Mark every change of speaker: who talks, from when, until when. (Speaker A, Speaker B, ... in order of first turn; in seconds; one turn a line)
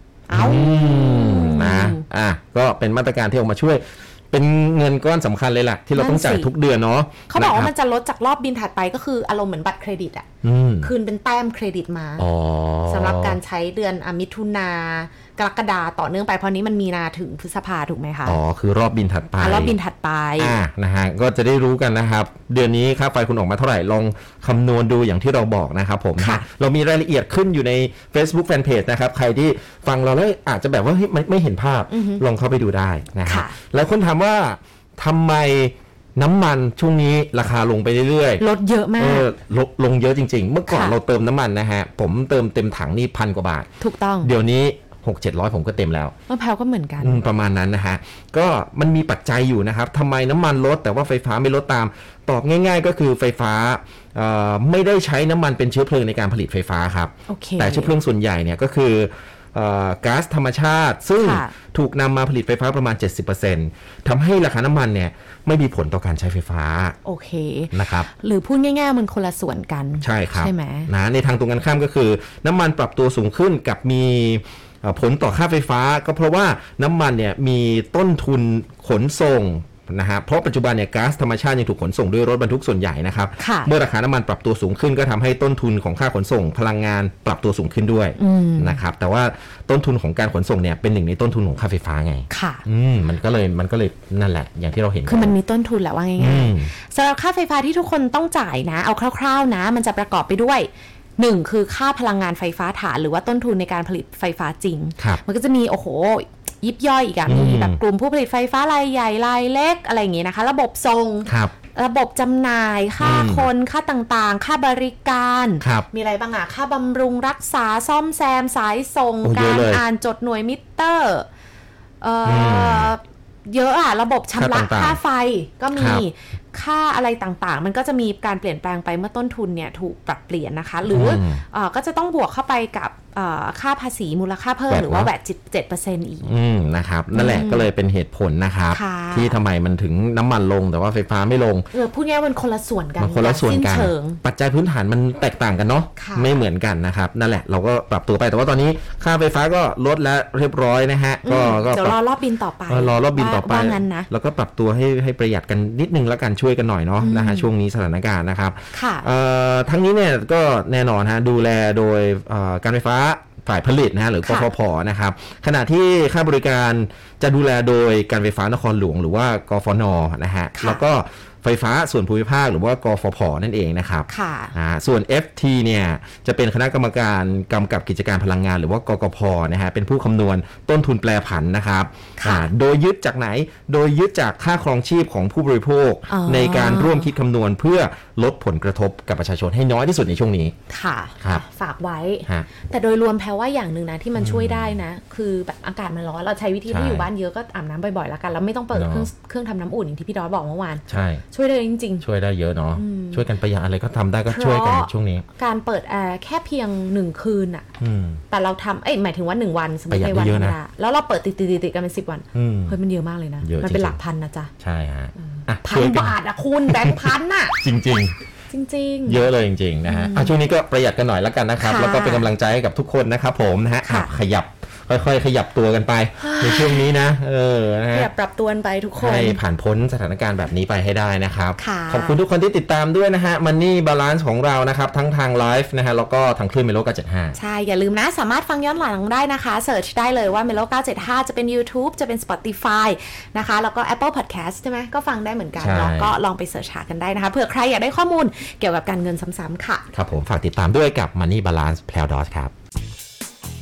Speaker A: 0.3-2.0
Speaker B: 0.3-7.7
Speaker A: 5.9-6.5
Speaker A: 7.3-10.2
Speaker B: 10.4-10.9
Speaker A: 10.8-12.3
Speaker B: 12.2-13.4
Speaker A: 12.9-18.4
Speaker B: 18.2-19.8
Speaker A: 19.4-20.6
Speaker B: 20.4-38.4
Speaker A: 26.2-26.4
Speaker A: 31.9-32.2
Speaker A: 33.2-33.6
Speaker A: 38.4-39.3
Speaker B: 39.0-43.7
Speaker A: 40.7-41.0
Speaker A: 43.8-44.3
Speaker B: 44.2-46.1
Speaker A: 46.3-47.2
Speaker B: 47.0-67.0
Speaker A: 57.3-57.9
Speaker A: 61.2-61.5
Speaker A: 67.0-70.9
Speaker B: 67.7-68.1
Speaker B: 70.0-95.3
Speaker A: 83.4-83.7
Speaker A: 88.2-88.8
Speaker A: 92.3-92.6
Speaker A: 95.1-121.2
Speaker B: 96.2-96.7
Speaker B: 107.2-107.8
Speaker B: 111.2-111.5
Speaker B: 113.0-113.5
Speaker B: 115.6-115.9
Speaker B: 119.2-119.8
Speaker A: 122.0-136.3
Speaker B: 122.2-122.9
Speaker B: 124.3-125.0
Speaker B: 125.7-126.0
Speaker B: 130.9-131.4
Speaker B: 134.7-135.1
Speaker B: 136.2-141.7
Speaker A: 137.1-137.7
Speaker A: 138.7-139.4
Speaker A: 141.7-144.2
Speaker B: 143.0-152.0
Speaker A: 145.9-146.3
Speaker A: 151.2-154.1
Speaker B: 152.7-190.6
Speaker A: 157.0-157.5
Speaker A: 158.7-159.1
Speaker A: 164.2-164.5
Speaker A: 170.6-170.8
Speaker A: 174.1-174.5
Speaker A: 182.2-182.5
Speaker A: 186.1-187.1
Speaker A: 190.7-202.1
Speaker B: 194.2-194.8
Speaker B: 196.7-197.1
Speaker B: 198.7-199.1
Speaker B: 200.9-201.2
Speaker B: 202.0-205.2
Speaker A: 202.8-203.2
Speaker A: 204.3-207.7
Speaker B: 207.8-208.2
Speaker A: 208.3-214.5
Speaker B: 209.9-210.6
Speaker B: 212.3-212.8
Speaker B: 213.4-214.0
Speaker B: 214.6-218.2
Speaker A: 215.2-217.6
Speaker A: 218.5-219.2
Speaker B: 219.1-228.1
Speaker A: 219.8-220.3
Speaker A: 221.6-222.3
Speaker A: 223.8-224.1
Speaker A: 226.2-226.9
Speaker A: 227.9-229.4
Speaker B: 229.0-237.4
Speaker A: 231.6-232.2
Speaker A: 237.3-249.8
Speaker B: 245.6-246.1
Speaker B: 249.9-252.5